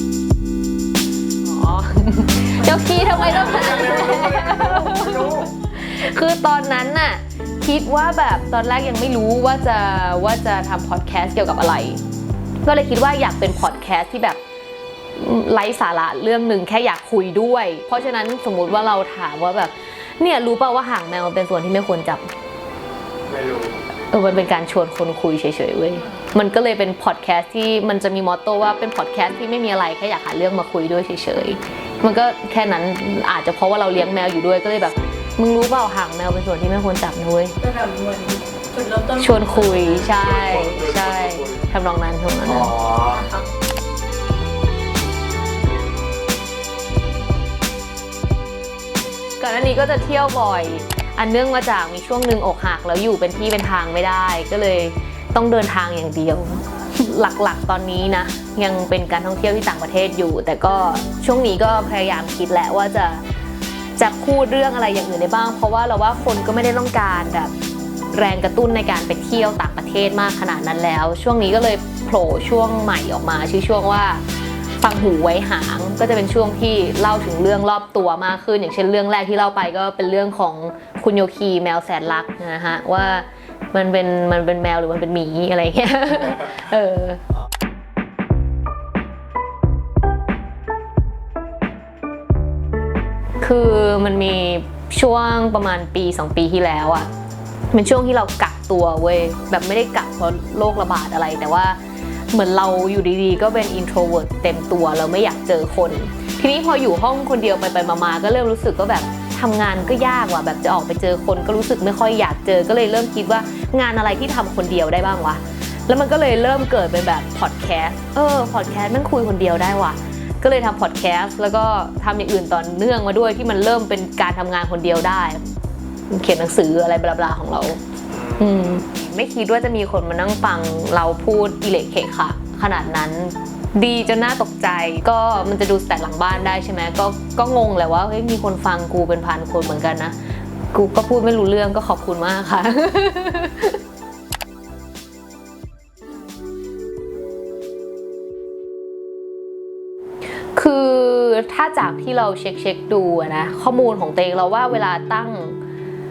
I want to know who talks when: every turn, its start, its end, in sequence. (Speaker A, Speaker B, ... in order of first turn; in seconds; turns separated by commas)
Speaker A: 1.4-12.0, Speaker B: 3.9-5.5, Speaker A: 12.7-14.4, Speaker A: 15.2-22.3, Speaker B: 23.3-23.8, Speaker A: 24.1-37.6, Speaker C: 37.6-40.0, Speaker A: 39.2-42.8, Speaker B: 40.1-41.5, Speaker B: 42.5-43.2, Speaker C: 43.1-43.5, Speaker A: 49.4-63.2, Speaker A: 64.0-67.5, Speaker A: 68.1-74.2, Speaker A: 74.8-87.2, Speaker A: 93.4-97.1, Speaker A: 97.7-101.8, Speaker A: 102.3-125.5, Speaker A: 126.1-127.8, Speaker A: 128.3-140.2, Speaker A: 140.7-143.8, Speaker A: 150.6-155.6